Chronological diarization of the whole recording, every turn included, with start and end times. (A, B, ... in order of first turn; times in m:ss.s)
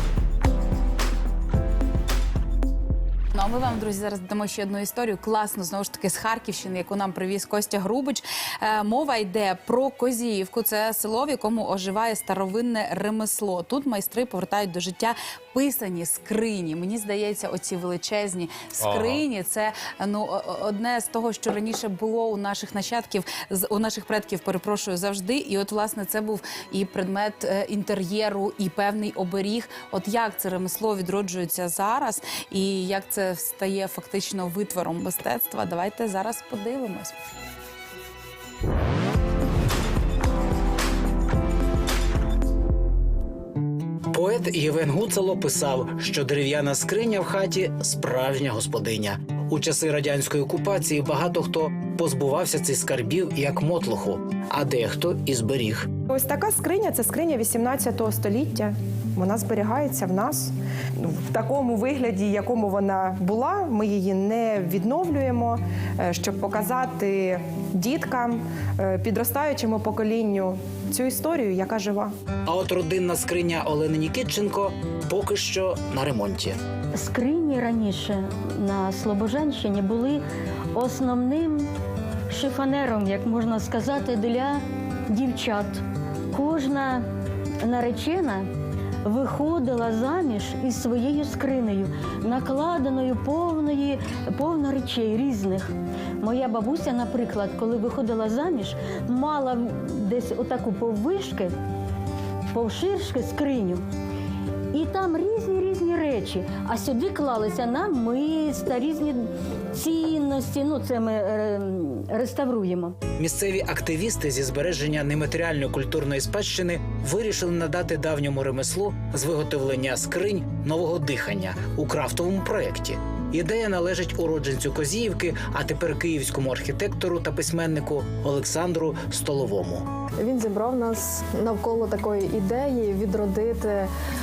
0:03.3-0:37.1 A
0:44.1-0:55.9 B
0:56.1-1:12.1 C
1:12.4-1:16.6 B
1:16.9-1:20.2 D
1:20.7-1:21.7 D
1:22.3-1:25.8 D
1:26.3-1:27.0 D
1:27.6-1:28.5 D
1:29.0-1:41.5 D
1:42.5-1:43.8 D
1:44.7-1:53.0 D
1:53.2-2:09.8 B
2:10.2-2:13.9 E